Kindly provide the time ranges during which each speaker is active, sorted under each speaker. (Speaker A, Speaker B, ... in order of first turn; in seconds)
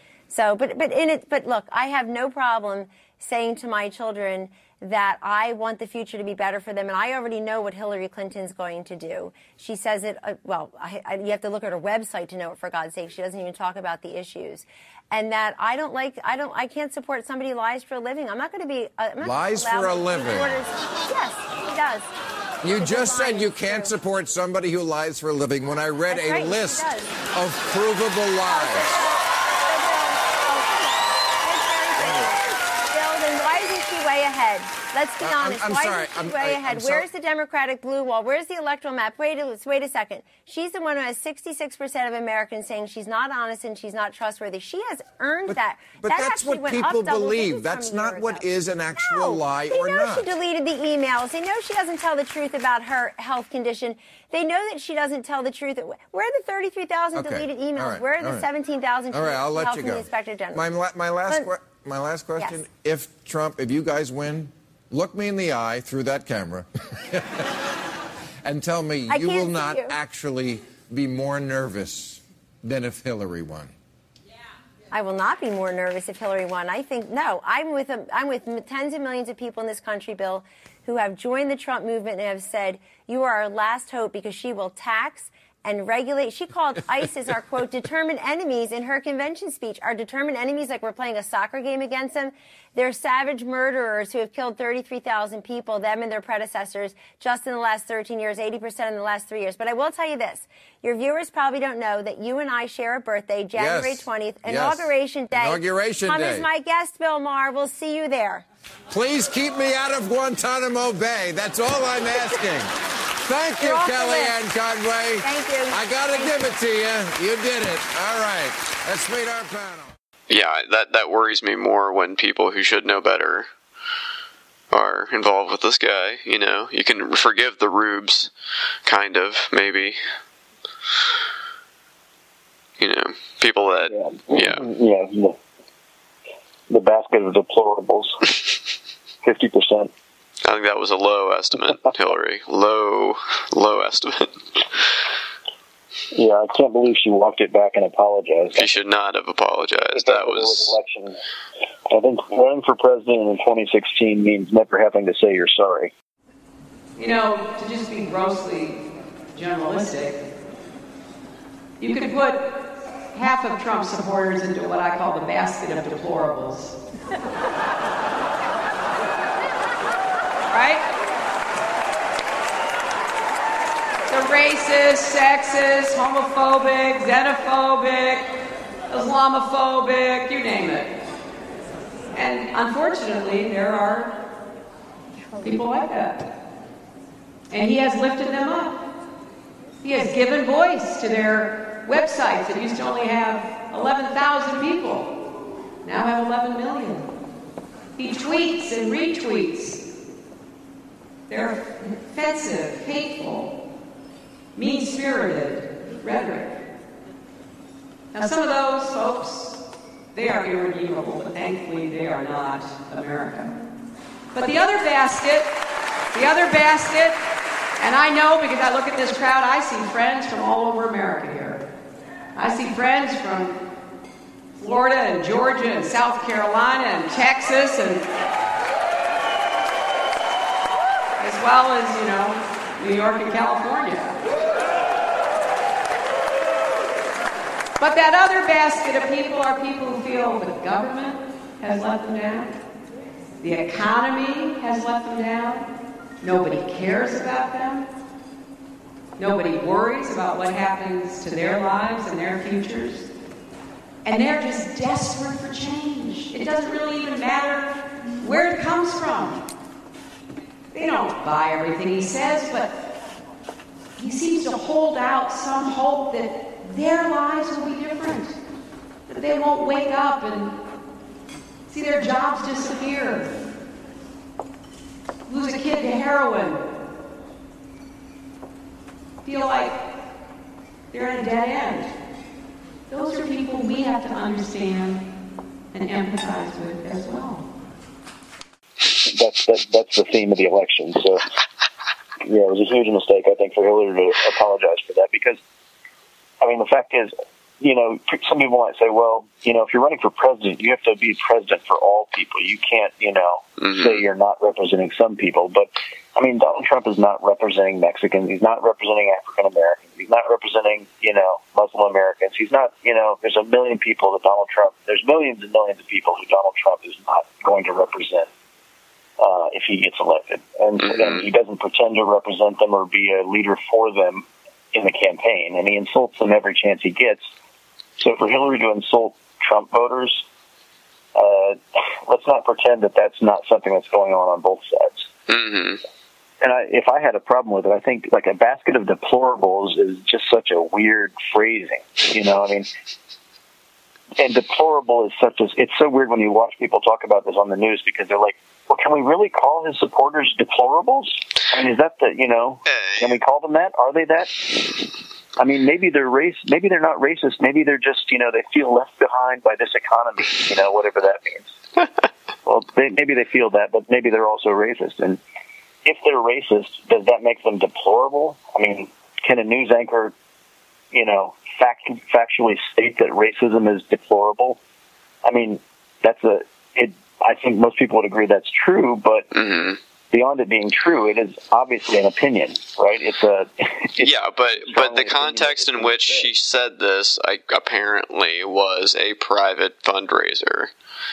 Speaker A: 0.3-22.1, 22.7-23.9, 26.1-27.2, 28.4-60.6, 62.4-62.6, 69.1-70.0, 74.9-108.5, 113.6-114.4, 115.2-116.5
Speaker B: 19.2-20.5, 22.6-29.0, 32.0-32.3, 35.2-37.1, 45.5-50.3, 57.1-58.5, 59.1-67.5, 68.5-73.7, 103.6-106.5, 108.9-112.7, 113.2-120.0
Speaker C: 120.3-123.5, 124.7-128.3, 128.9-130.0, 132.8-134.7, 140.4-145.0, 148.6-150.8, 303.6-304.0, 335.3-335.8, 352.7-353.1, 379.3-379.8, 384.0-390.7
Speaker D: 133.8-135.4, 136.7-138.2, 139.2-139.9, 146.1-148.7, 149.8-151.2, 151.9-155.9, 288.9-291.2, 292.2-295.4, 296.4-318.3, 319.2-327.2, 328.0-330.2, 331.1-335.1, 336.4-342.7, 344.2-354.6, 355.4-361.5, 362.4-365.2, 365.9-370.1, 370.9-374.6, 375.2-379.3, 380.1-386.3
Speaker E: 157.0-160.2, 161.8-162.6, 163.1-166.8, 170.5-170.8, 174.1-178.3, 178.9-181.0, 182.1-184.1, 185.4-186.3, 187.5-188.8, 189.8-195.2, 195.8-197.1, 198.0-199.8, 201.3-203.5, 204.6-206.6, 208.1-213.5, 214.3-215.5, 216.1-217.2, 217.8-221.6, 222.3-223.6, 224.6-228.1, 231.2-234.2, 237.8-242.6, 243.4-245.7, 246.2-247.9, 249.2-253.1, 254.1-259.4, 260.7-262.7, 264.0-268.4, 269.1-270.6, 271.7-273.3, 275.3-276.6, 279.2-279.8, 280.9-281.9, 282.9-285.0, 285.7-287.4